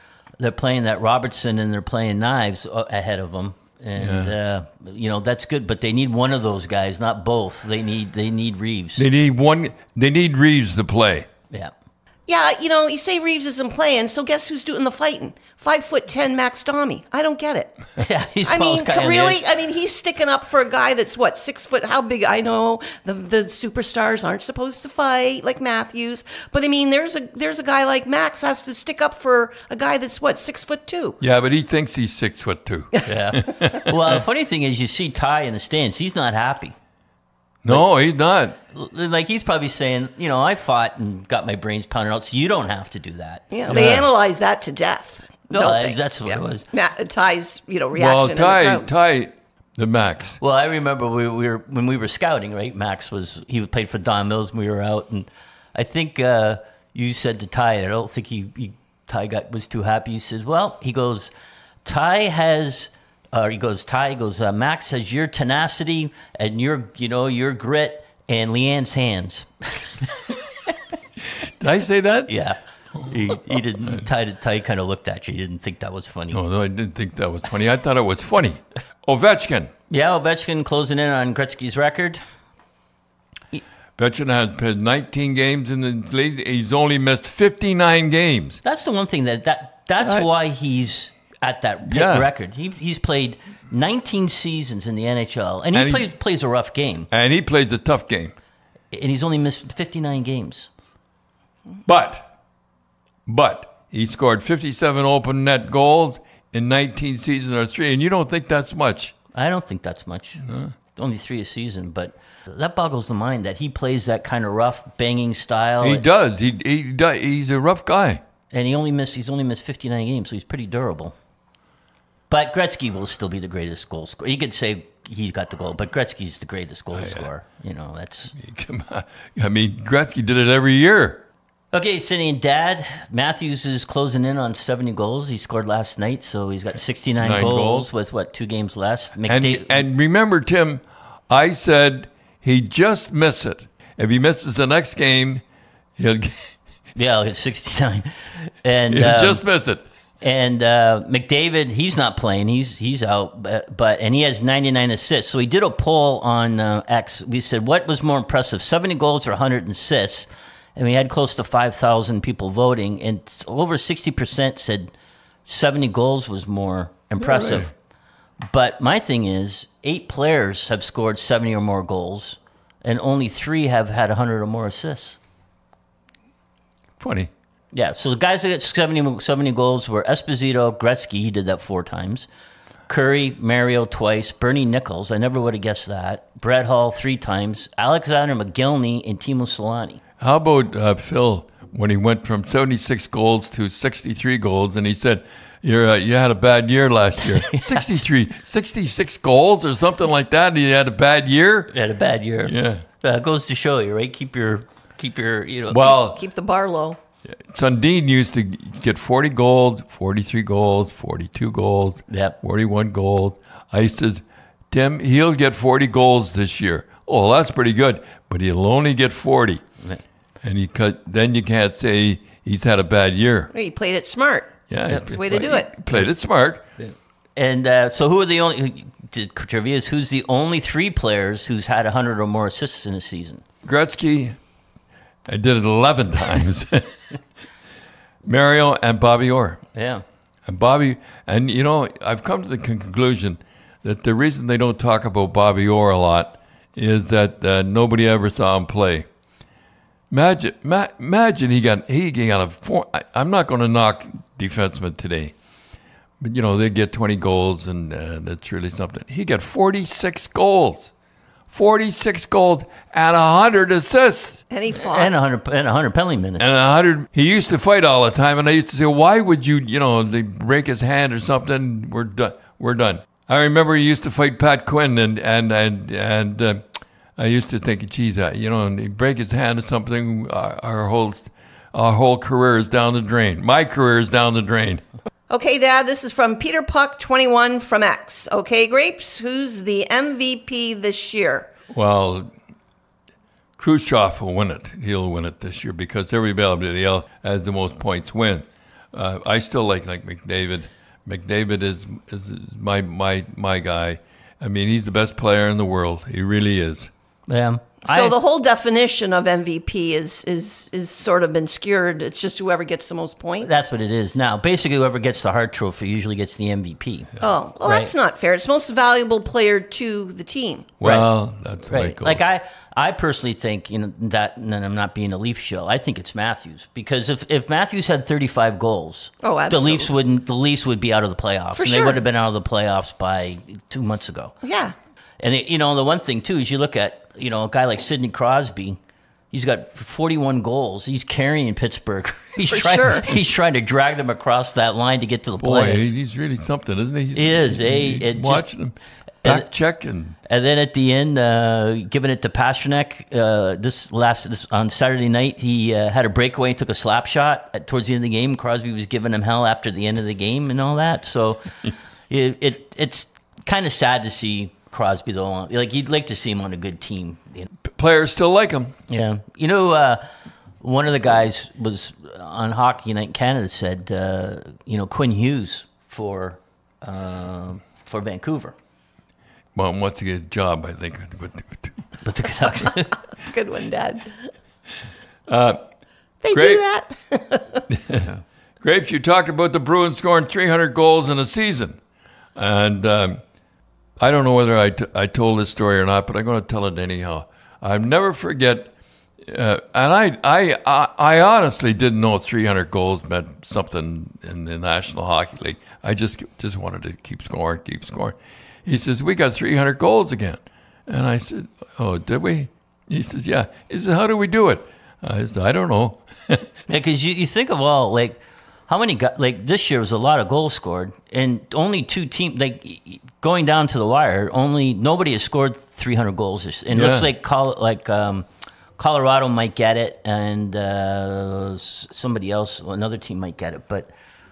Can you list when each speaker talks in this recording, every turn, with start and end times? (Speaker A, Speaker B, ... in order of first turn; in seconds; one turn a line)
Speaker A: 0.4-9.1
Speaker B: 4.0-4.3
Speaker B: 9.0-11.3
Speaker C: 12.3-17.8
Speaker A: 18.0-19.4
Speaker C: 18.4-31.2
Speaker B: 31.2-34.2
Speaker A: 33.0-36.7
Speaker B: 37.6-38.5
Speaker A: 38.7-44.1
Speaker C: 43.5-48.9
Speaker B: 43.7-44.0
Speaker A: 45.5-46.6
Speaker B: 47.9-50.4
Speaker A: 50.4-61.3
Speaker A: 61.8-70.4
Speaker B: 71.4-72.3
Speaker A: 72.3-76.4
Speaker B: 72.9-74.0
Speaker B: 76.3-79.7
Speaker A: 79.9-82.2
Speaker B: 84.0-88.6
Speaker A: 88.6-97.1
Speaker B: 90.0-90.3
Speaker B: 91.8-92.3
Speaker B: 95.7-96.1
Speaker B: 97.1-98.3
Speaker A: 98.9-100.7
Speaker B: 101.8-102.3
Speaker B: 103.2-109.1
Speaker A: 109.3-110.4
Speaker B: 110.5-110.7
Speaker A: 110.9-116.0
Speaker B: 115.8-118.2
Speaker A: 118.5-121.1
Speaker A: 122.3-128.3
Speaker B: 126.9-127.3
Speaker B: 128.3-131.2
Speaker A: 131.7-139.8
Speaker B: 137.2-137.9
Speaker B: 139.3-145.4
Speaker B: 146.0-146.4
Speaker A: 146.9-149.4
Speaker B: 148.9-149.8
Speaker A: 150.2-164.9
Speaker A: 165.4-167.7
Speaker B: 167.2-167.7
Speaker A: 168.5-175.2
Speaker B: 177.0-177.3
Speaker A: 177.7-182.3
Speaker A: 182.9-190.0
Speaker B: 190.2-201.7
Speaker A: 197.2-197.8
Speaker A: 201.7-205.8
Speaker B: 202.4-202.8
Speaker B: 205.7-206.2
Speaker C: 205.7-207.0
Speaker B: 207.3-219.6
Speaker A: 212.1-212.4
Speaker B: 220.4-223.5
Speaker C: 223.5-225.7
Speaker B: 224.7-226.6
Speaker A: 226.8-233.4
Speaker B: 233.7-234.4
Speaker B: 235.3-236.9
Speaker B: 238.2-239.6
Speaker A: 239.7-240.0
Speaker B: 240.5-249.1
Speaker B: 250.1-255.3
Speaker B: 256.2-260.9
Speaker B: 261.5-264.4
Speaker C: 264.5-265.1
Speaker A: 264.7-266.5
Speaker B: 266.4-276.6
Speaker B: 277.2-284.8
Speaker C: 285.3-291.5
Speaker B: 291.7-292.3
Speaker B: 293.6-306.9
Speaker A: 307.3-308.2
Speaker C: 307.8-313.6
Speaker A: 313.4-317.9
Speaker C: 317.2-320.7
Speaker B: 320.8-322.2
Speaker A: 320.8-321.1
Speaker A: 321.6-334.3
Speaker C: 329.2-329.9
Speaker C: 331.5-332.0
Speaker C: 334.4-334.7
Speaker A: 335.2-338.8
Speaker A: 339.3-345.9
Speaker C: 342.5-343.1
Speaker B: 345.4-350.2
Speaker A: 347.1-348.5
Speaker A: 350.2-367.5
Speaker B: 367.7-368.7
Speaker A: 368.9-370.1
Speaker A: 370.6-378.5
Speaker B: 379.5-381.8
Speaker A: 382.0-383.0
Speaker C: 383.1-384.1
Speaker B: 385.3-385.6
Speaker C: 386.2-387.6
Speaker B: 386.3-386.6
Speaker B: 387.7-388.1
Speaker B: 388.6-391.8
Speaker B: 392.4-393.2
Speaker B: 394.0-398.7
Speaker B: 399.3-416.4
Speaker A: 416.7-428.2
Speaker B: 426.7-427.1
Speaker A: 428.8-433.9